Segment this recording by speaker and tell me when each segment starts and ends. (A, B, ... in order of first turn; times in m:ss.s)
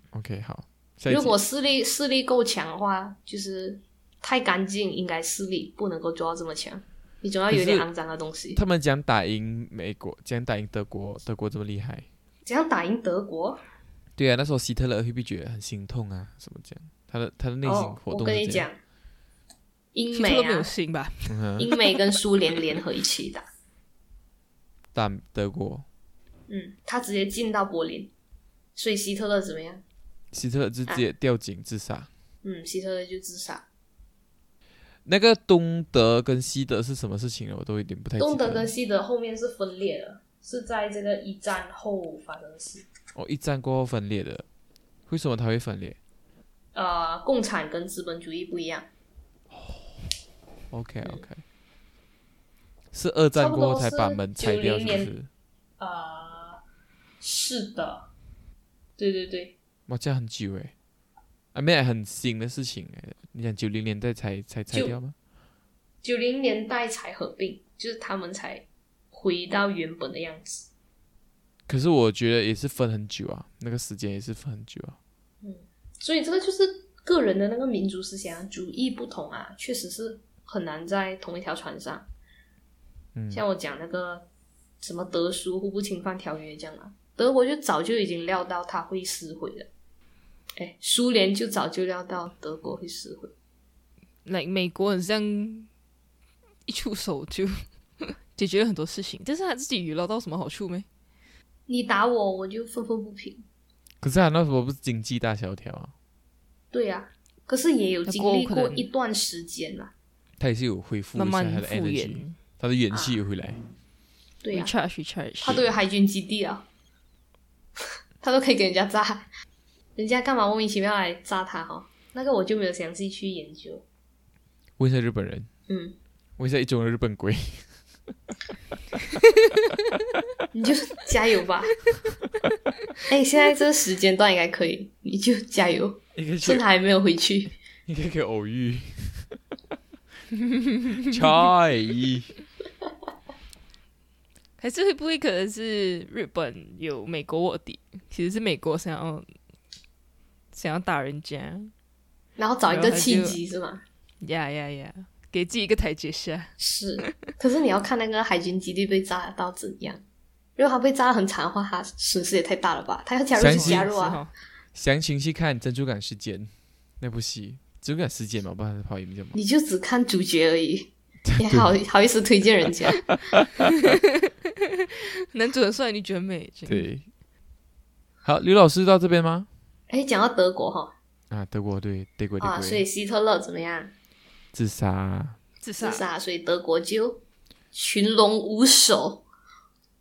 0:00.1-0:01.3 A
0:01.1-0:08.6 B
0:07.5-0:07.9 A
0:08.5-0:12.0 A
0:12.4-0:13.6 B
0:14.2-0:18.6 A
0:17.6-0:18.8 B
0:19.9-0:20.7 B
0:20.1-0:22.2 C
0:21.3-0:21.7 A
0:21.6-0:23.4 B
0:24.9-0:25.8 A
0:26.5-0:28.1 B
0:28.8-0:29.8 B
0:30.3-0:32.1 A
0:32.4-0:33.6 B
0:35.0-0:38.7 A
0:38.2-0:42.8 B
0:43.1-0:44.4 A
0:45.1-0:46.0 A
0:46.7-0:48.9 B
0:49.5-0:49.9 A
0:50.7-0:51.4 A
0:52.9-0:55.3 A
0:53.4-0:55.1 B
0:55.8-0:56.6 B
0:57.2-0:58.1 B
0:59.0-0:59.5 B
0:59.9-1:00.7 A
1:01.5-1:05.1 A
1:04.7-1:05.0 B
1:06.0-1:10.7 B
1:11.7-1:15.0 A
1:15.4-1:22.1 B
1:23.1-1:23.4 A
1:23.3-1:24.3 B
1:24.8-1:29.7 B
1:30.6-1:33.3 B
1:34.2-1:35.7 C
1:36.6-1:40.9 C
1:41.7-1:43.4 B
1:44.0-1:45.9 A
1:46.7-1:49.9 B
1:48.1-1:48.8 C
1:50.4-1:53.6 A
1:51.1-1:52.4 C
1:52.9-1:53.2 B
1:54.4-1:54.7 B
1:54.5-1:55.6 C
1:55.4-1:56.6 B
1:58.2-1:59.3 B
2:00.0-2:03.8 B
2:04.8-2:05.5 A
2:05.7-2:05.9 B
2:06.4-2:07.7 A
2:10.5-2:11.8 B
2:13.1-2:17.6 B
2:16.1-2:16.6 A
2:17.9-2:19.4 A
2:20.6-2:21.1 C
2:21.0-2:22.3 A
2:24.6-2:29.3 C
2:30.5-2:31.7 C
2:32.4-2:33.8 B
2:32.7-2:33.4 C
2:34.2-2:37.1 C
2:36.6-2:40.0 B
2:40.6-2:44.2 B
2:43.4-2:43.9 A
2:43.4-2:44.3 C
2:44.7-2:49.4 A
2:49.3-2:53.0 B
2:51.2-2:51.7 A
2:53.3-2:53.6 A
2:54.8-2:56.9 C
2:56.7-2:57.0 A
2:58.2-2:59.5 A
2:59.9-3:00.9 B
3:01.3-3:02.8 A
3:02.4-3:03.9 B
3:04.5-3:05.4 A
3:05.6-3:06.0 C
3:05.8-3:07.2 B
3:07.7-3:09.2 B